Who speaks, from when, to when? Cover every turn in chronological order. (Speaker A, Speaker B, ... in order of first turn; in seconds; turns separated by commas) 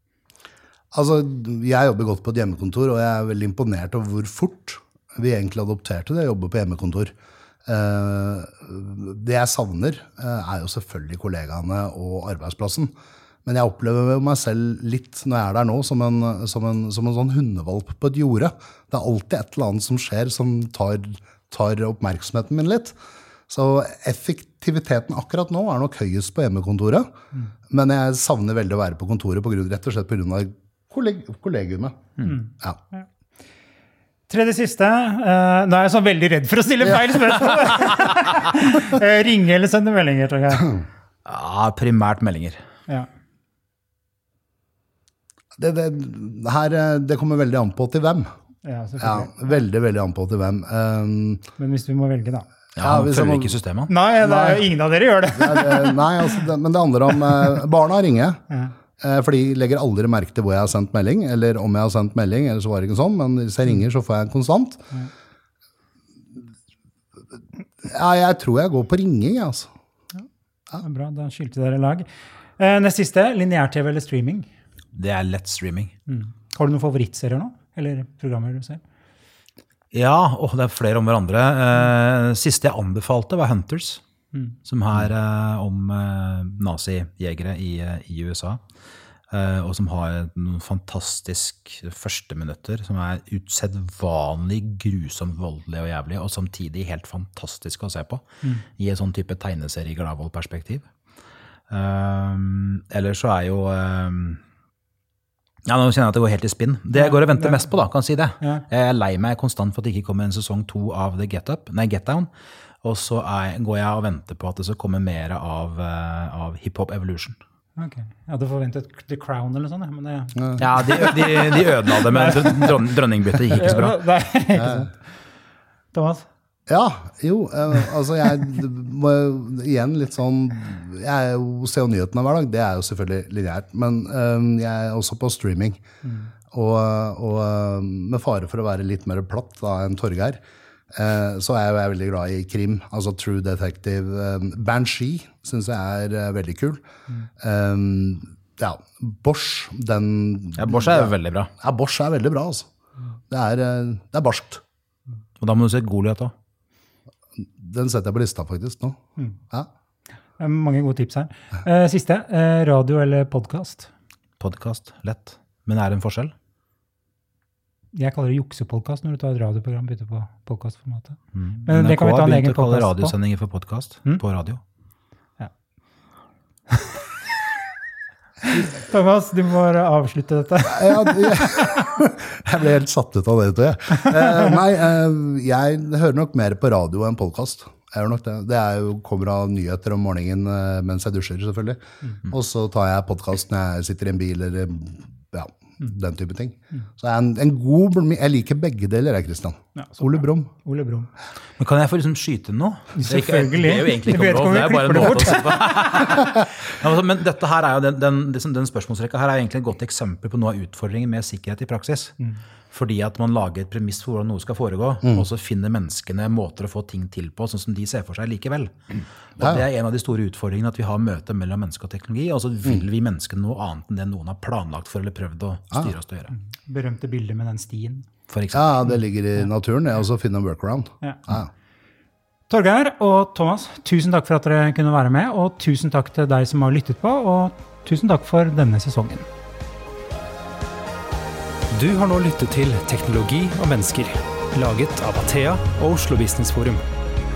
Speaker A: 0.9-7.1, Speaker A: 7.6-12.9, Speaker A: 13.4-23.0, Speaker A: 23.5-27.1, Speaker A: 27.7-32.8, Speaker B: 32.2-33.0, Speaker B: 34.3-40.8, Speaker C: 41.2-42.6, Speaker A: 45.5-48.3, Speaker B: 48.6-49.5, Speaker A: 49.0-51.4, Speaker B: 51.6-52.5, Speaker A: 52.8-53.6, Speaker C: 52.8-53.9, Speaker B: 53.9-56.2, Speaker A: 54.2-54.7, Speaker A: 55.3-58.4, Speaker A: 59.0-64.8, Speaker A: 67.8-69.7, Speaker B: 70.8-72.1, Speaker B: 72.6-74.5, Speaker C: 74.9-75.9, Speaker B: 76.1-78.8, Speaker C: 79.9-84.0, Speaker C: 84.7-88.6, Speaker C: 89.3-98.2, Speaker C: 98.8-100.9, Speaker C: 101.7-104.4, Speaker C: 105.7-112.3, Speaker B: 106.9-107.7, Speaker B: 108.4-108.7, Speaker C: 112.8-117.4, Speaker B: 117.8-122.8, Speaker C: 120.6-124.0, Speaker B: 123.5-124.9, Speaker A: 124.5-124.9, Speaker B: 125.9-126.3, Speaker A: 126.7-135.8, Speaker B: 136.0-136.3, Speaker A: 136.5-140.4, Speaker A: 140.9-146.8, Speaker A: 147.4-152.7, Speaker C: 150.6-151.5, Speaker A: 153.3-154.6, Speaker C: 155.4-156.3, Speaker A: 157.4-159.7, Speaker B: 160.4-163.9, Speaker C: 164.4-166.3, Speaker B: 167.9-173.1, Speaker C: 171.3-174.6, Speaker B: 176.7-177.0, Speaker B: 178.5-181.6, Speaker A: 180.7-200.5, Speaker B: 184.0-184.4, Speaker B: 199.8-201.1, Speaker C: 201.6-212.1, Speaker B: 202.9-205.6, Speaker C: 212.7-226.3, Speaker B: 226.3-228.1, Speaker C: 228.3-228.9, Speaker A: 228.5-231.5, Speaker B: 232.5-239.3, Speaker D: 241.7-246.8